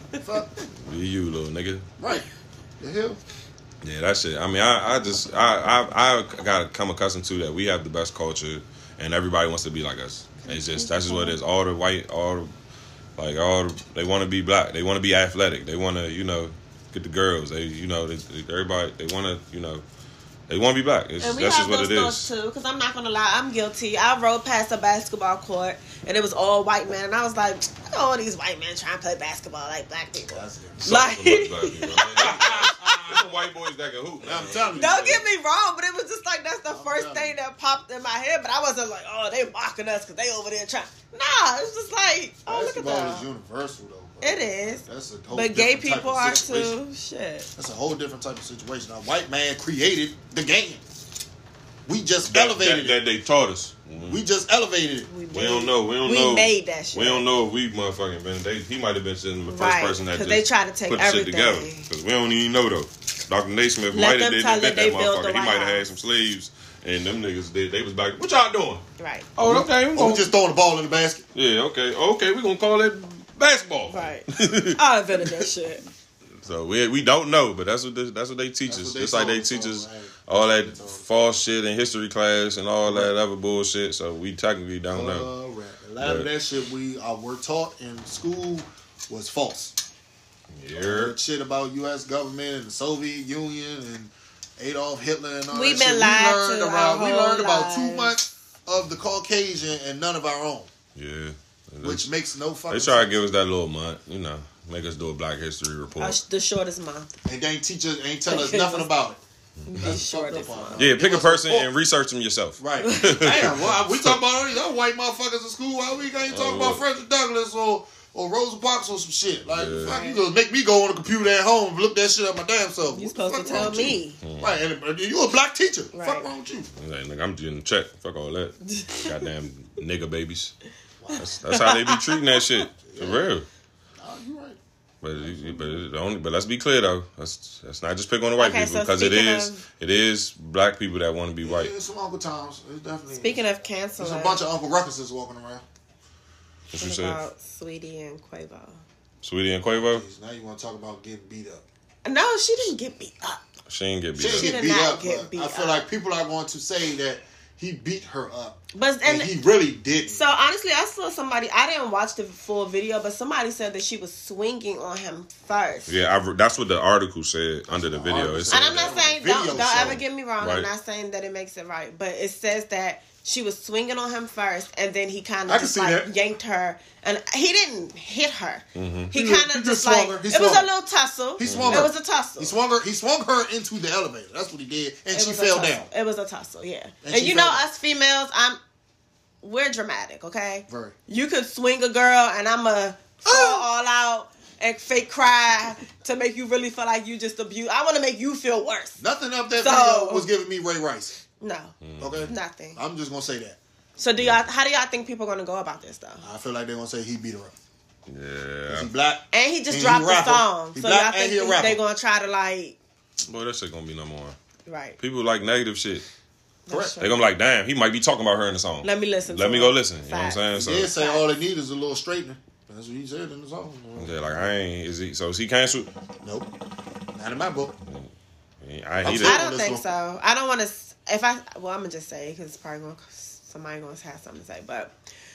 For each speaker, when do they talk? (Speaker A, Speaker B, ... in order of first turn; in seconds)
Speaker A: 0.2-0.5, 2.0-2.3, 2.8-3.2, 30.3-30.8, 32.1-33.2, 34.2-35.2, 36.7-37.4, 42.5-46.8, 47.5-50.8, 51.9-53.0, 54.1-55.1, 69.4-71.2, 78.7-81.0, 82.8-83.1, 84.9-89.8, 90.8-100.7, 101.8-103.2, 107.2-109.2, 109.7-111.7, 112.6-126.7, 131.0-131.3, 132.8-133.3, 134.0-134.6, 135.2-135.8, 141.4-143.4, 144.0-145.6, 149.9-151.6, 154.2-160.2, 167.7-170.0, 175.4-176.1, 179.1-180.7, 181.4-185.9, 187.0-187.7, 190.7-190.9, 193.2-193.7, 199.0-201.2, 202.0-203.6, 206.2-207.5, 208.7-211.8, 216.7-217.0, 220.5-224.2, 226.2-226.5, 227.1-227.7, 229.0-229.8
Speaker B: 0.8-1.9, 3.8-12.5, 13.2-19.8, 20.5-22.3, 30.8-35.2, 52.3-54.2, 55.3-68.8, 69.3-70.3, 71.3-75.5, 76.4-85.3, 86.0-86.3, 90.5-91.1, 100.9-102.1, 102.7-106.2, 109.6-110.0, 110.8-114.2, 116.3-116.8, 119.5-120.0, 124.2-124.6, 126.8-130.5, 131.2-133.4, 135.0-141.7, 146.7-147.2, 149.2-150.0, 153.7-154.5, 165.9-168.9, 170.4-170.7, 178.7-179.1, 181.4-181.9, 201.8-202.3, 208.1-208.9, 213.2-214.3, 215.0-216.0, 217.0-220.9, 223.9-225.9, 227.8-228.1, 228.6-229.4
Speaker C: 10.4-11.4, 21.2-32.7, 34.8-43.2, 44.2-47.5, 55.1-57.2, 59.5-61.9, 63.9-65.9, 69.0-69.3, 73.9-75.8, 95.5-98.1, 106.0-107.2, 108.3-108.9, 109.7-110.9, 112.8-113.4, 119.8-120.2, 122.9-124.2, 125.9-126.3, 128.7-129.3, 131.4-132.4, 138.4-139.6, 143.1-144.4, 146.7-148.8, 152.0-153.4, 154.3-155.8, 158.7-159.3, 160.1-166.0, 168.5-182.5, 185.1-188.6, 189.4-199.0, 199.6-200.3, 201.4-201.7, 202.3-202.8, 204.0-206.2, 209.3-212.8, 214.7-215.0, 216.7-217.1, 218.8-221.2, 229.2-234.9